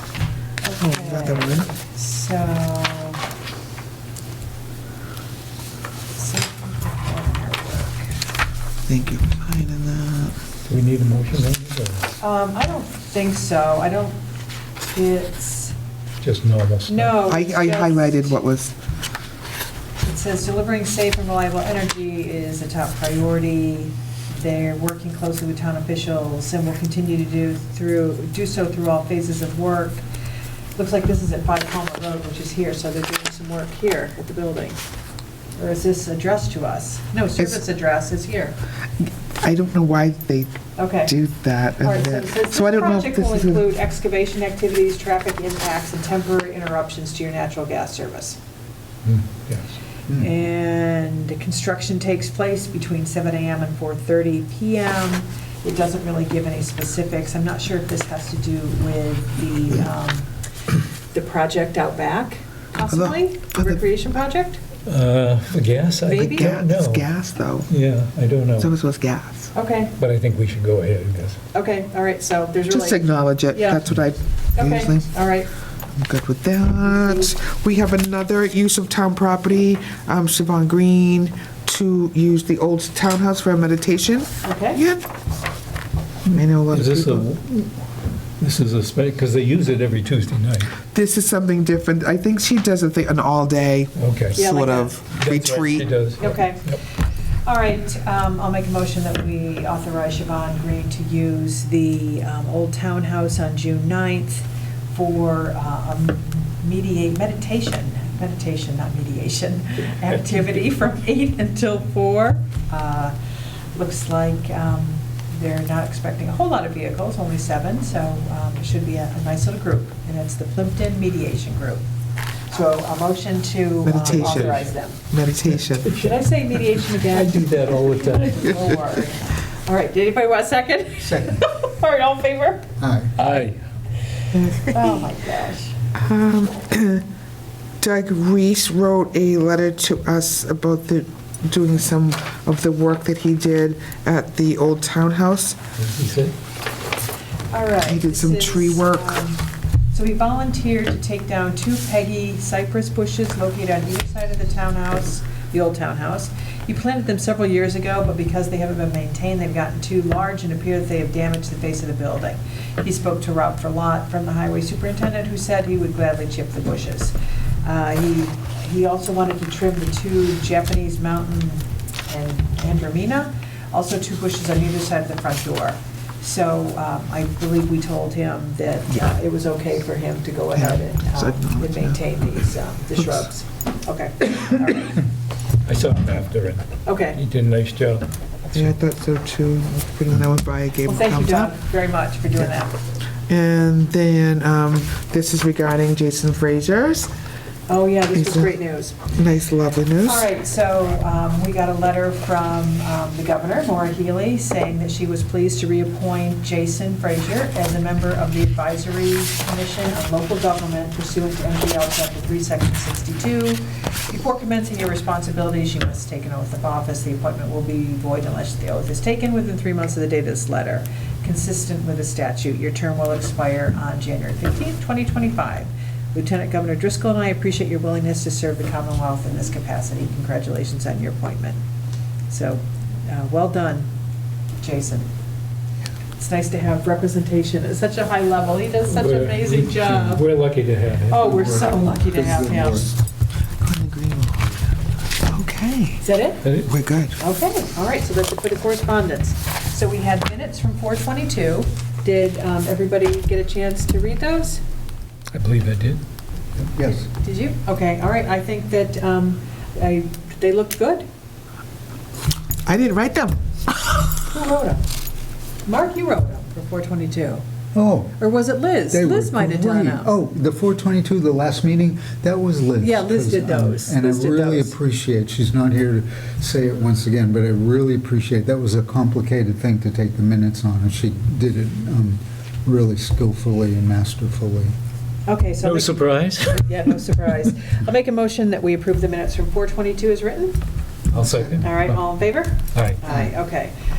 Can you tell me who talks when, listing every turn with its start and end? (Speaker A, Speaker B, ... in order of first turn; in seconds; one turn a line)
Speaker A: 0.6-3.2
Speaker B: 0.8-1.7
Speaker A: 6.1-8.2
Speaker B: 8.9-10.3
Speaker C: 10.7-12.1
Speaker A: 12.2-14.2
Speaker A: 14.8-15.7
Speaker C: 16.2-17.2
Speaker A: 16.9-18.4
Speaker B: 17.2-18.7
Speaker A: 20.0-30.0
Speaker A: 30.8-34.8
Speaker A: 35.5-38.5
Speaker B: 39.0-43.6
Speaker A: 40.8-41.1
Speaker A: 41.8-48.4
Speaker C: 49.0-49.7
Speaker A: 50.1-60.3
Speaker A: 61.1-64.6
Speaker B: 62.9-63.8
Speaker C: 64.8-67.1
Speaker A: 66.0-66.6
Speaker B: 66.1-67.7
Speaker C: 67.7-68.7
Speaker B: 68.6-69.5
Speaker A: 69.5-69.9
Speaker C: 70.0-71.4
Speaker A: 71.5-73.8
Speaker B: 72.7-75.1
Speaker A: 74.5-75.5
Speaker B: 75.9-85.0
Speaker A: 76.8-77.3
Speaker A: 84.4-84.8
Speaker B: 86.2-87.3
Speaker C: 86.7-87.8
Speaker C: 88.4-90.8
Speaker B: 90.8-95.9
Speaker C: 94.0-94.5
Speaker A: 94.3-94.9
Speaker C: 95.1-96.8
Speaker A: 96.2-96.8
Speaker A: 97.4-113.1
Speaker A: 113.7-121.8
Speaker A: 122.5-125.0
Speaker B: 123.8-125.9
Speaker C: 124.2-124.6
Speaker C: 125.8-126.2
Speaker A: 125.9-132.7
Speaker C: 127.0-128.6
Speaker D: 131.0-131.4
Speaker D: 132.8-133.1
Speaker C: 133.2-133.6
Speaker B: 134.3-134.9
Speaker A: 134.6-135.8
Speaker B: 135.9-137.0
Speaker B: 137.8-145.6
Speaker C: 145.8-146.3
Speaker A: 147.5-185.0
Speaker B: 147.8-149.2
Speaker B: 180.5-182.0
Speaker C: 185.6-188.7
Speaker A: 186.8-187.2
Speaker B: 188.5-191.5
Speaker A: 190.8-192.8
Speaker B: 193.3-197.1
Speaker A: 197.7-199.0
Speaker B: 198.1-198.5
Speaker B: 199.1-200.3
Speaker A: 200.0-231.6
Speaker A: 232.3-233.9
Speaker A: 234.6-235.1
Speaker A: 236.2-240.2
Speaker C: 238.9-241.7
Speaker A: 241.1-242.9
Speaker D: 241.2-242.9
Speaker B: 243.6-246.0
Speaker A: 246.0-246.5
Speaker C: 246.4-246.7
Speaker B: 246.6-247.2
Speaker A: 247.2-254.6
Speaker C: 255.3-256.0
Speaker D: 256.6-257.1
Speaker A: 256.8-261.1
Speaker B: 262.6-263.4
Speaker A: 264.2-264.9
Speaker A: 265.6-267.4
Speaker D: 267.7-268.2
Speaker A: 268.2-270.1
Speaker D: 268.9-284.7
Speaker A: 272.8-274.7
Speaker A: 285.3-290.6
Speaker C: 285.6-286.8
Speaker C: 291.1-292.0
Speaker A: 291.6-293.7
Speaker C: 292.7-293.0